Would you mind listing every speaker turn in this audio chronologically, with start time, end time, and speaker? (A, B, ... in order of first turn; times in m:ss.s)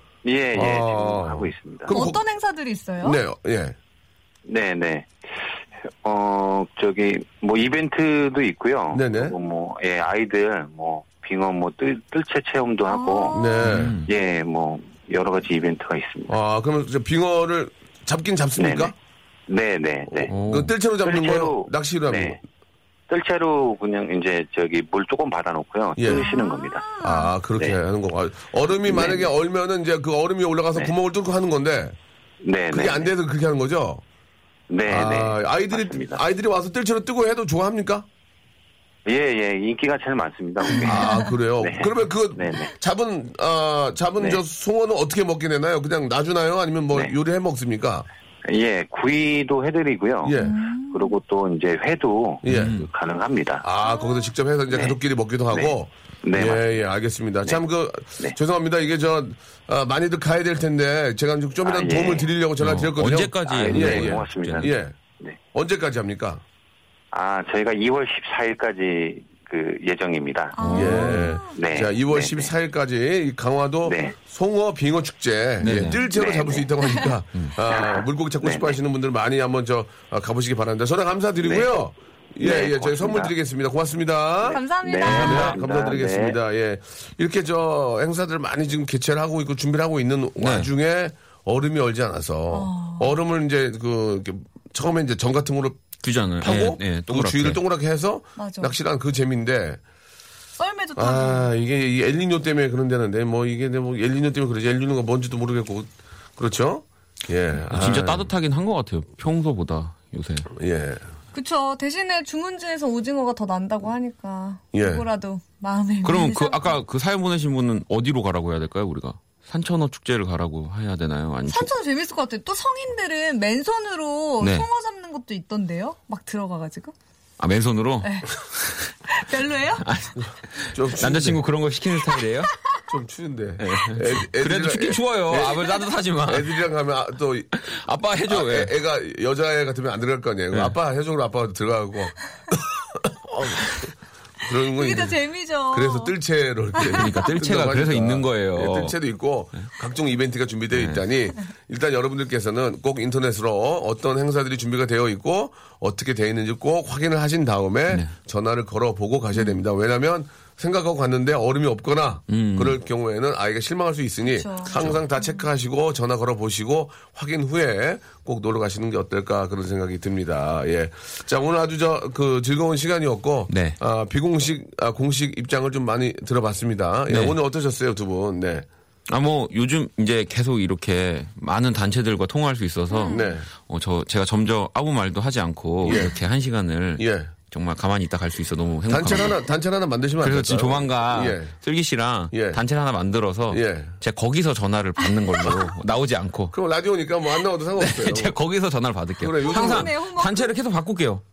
0:00.2-0:01.9 A
0:00.5-0:02.2 B
0:01.9-0:03.2 C
0:03.0-0:03.8 B
0:04.4-0:05.4 A
0:06.0-0:16.3 A
0:08.9-0:09.4 B
0:12.9-0:13.7 C
0:13.3-0:14.0 B
0:13.6-0:14.1 D
0:16.3-0:18.9 B
0:18.6-0:18.9 A
0:19.5-0:20.3 A
0:20.1-0:22.4 B
0:20.3-0:20.7 D
0:21.0-0:22.4 A
0:23.1-0:26.9 A
0:26.0-0:26.3 B
0:26.0-0:27.3 C
0:27.0-0:32.0 B
0:28.8-0:29.3 A
0:32.4-0:33.1 A
0:32.7-0:34.0 B
0:34.7-0:36.2 A
0:34.9-0:38.1 B
0:39.0-0:41.0 A
0:40.7-0:41.4 C
0:40.8-0:48.1 B
0:41.6-0:42.7 A
0:48.5-0:53.6 A
0:50.2-0:50.6 B
0:50.4-0:51.2 C
0:52.4-0:52.8 B
0:52.5-0:52.9 D
0:53.6-1:05.0 B
0:53.8-0:54.3 C
0:54.7-0:54.9 A
0:56.2-0:56.6 A
1:01.6-1:02.3 A
1:02.6-1:04.7 D
1:03.4-1:05.4 A
1:05.5-1:06.4 B
1:07.1-1:10.6 A
1:10.6-1:11.6 C
1:10.6-1:11.2 D
1:10.7-1:39.8 B
1:11.4-1:12.5 A
1:13.8-1:14.1 A
1:15.6-1:16.1 D
1:16.1-1:16.7 A
1:16.8-1:17.1 C
1:17.8-1:18.7 A
1:21.4-1:21.7 A
1:22.4-1:23.3 A
1:24.4-1:25.6 C
1:24.4-1:26.4 A
1:25.0-1:25.6 D
1:30.4-1:30.7 D
1:32.5-1:33.1 C
1:36.0-1:37.6 D
1:38.4-1:38.7 C
1:40.6-1:41.5 C
1:41.0-1:48.3 B
1:47.7-1:50.5 D
1:50.5-1:51.0 B
1:51.3-1:56.7 C
1:54.7-1:55.0 B
1:56.0-2:01.7 D
2:01.4-2:06.9 C
2:04.4-2:04.6 D
2:07.4-2:08.8 D
2:08.0-2:08.3 C
2:09.1-2:09.8 C
2:09.8-2:12.5 D
2:10.2-2:11.4 B
2:12.9-2:17.5 B
2:13.6-2:16.5 D
2:17.6-2:18.7 D
2:18.3-2:23.8 B
2:24.4-2:25.2 B
2:24.7-2:26.2 C
2:25.7-2:58.7 B
2:26.9-2:29.0 D
2:30.7-2:31.0 D
2:42.3-2:42.8 D
2:44.2-2:45.4 C
2:44.7-2:45.0 D
2:53.5-2:53.8 D
2:57.1-2:57.3 D
2:59.1-3:09.4 D
3:02.9-3:03.3 C
3:03.1-3:03.5 B
3:05.8-3:06.2 B
3:07.0-3:07.3 B
3:08.9-3:11.5 B
3:10.2-3:16.5 D
3:12.3-3:12.6 B
3:13.5-3:14.0 B
3:16.5-3:18.4 B
3:17.8-3:21.2 D
3:19.2-3:19.9 B
3:19.4-3:20.5 C